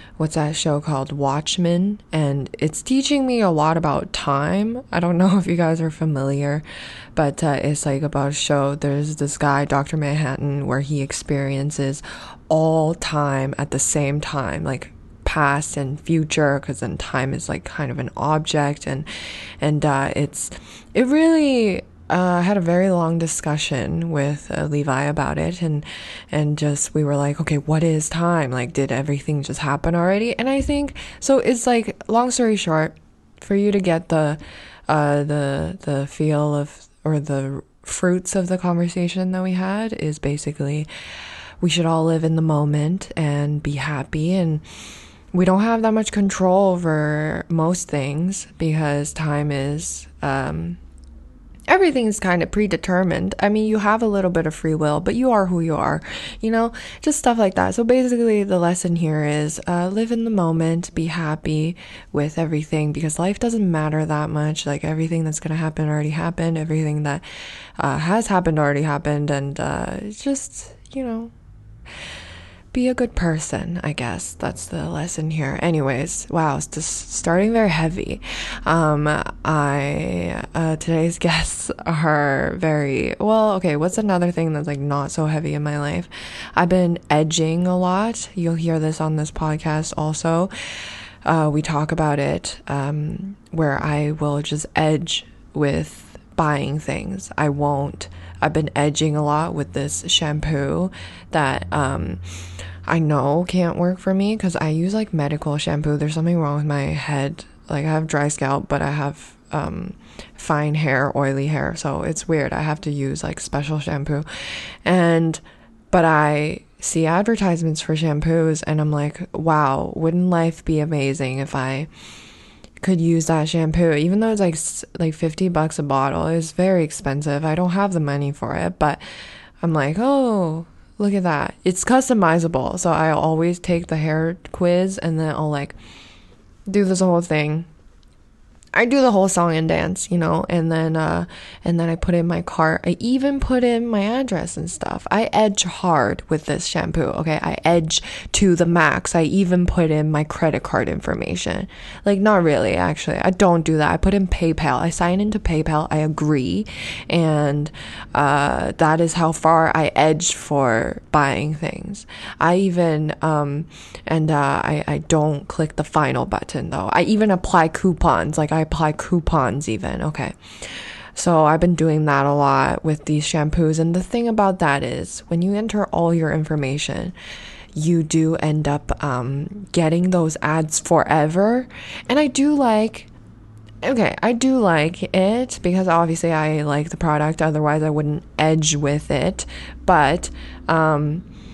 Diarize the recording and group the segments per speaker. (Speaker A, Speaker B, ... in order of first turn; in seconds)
Speaker A: 0.2-6.6, 7.2-19.1, 19.6-40.9, 41.6-44.6, 45.3-50.8, 51.7-67.2, 67.8-71.3, 72.7-90.5, 91.2-102.2, 102.9-114.2, 114.8-115.4, 115.9-121.9, 122.8-129.0, 129.6-135.8, 136.7-137.7, 138.8-170.4, 171.2-177.2, 177.8-183.1, 183.8-191.2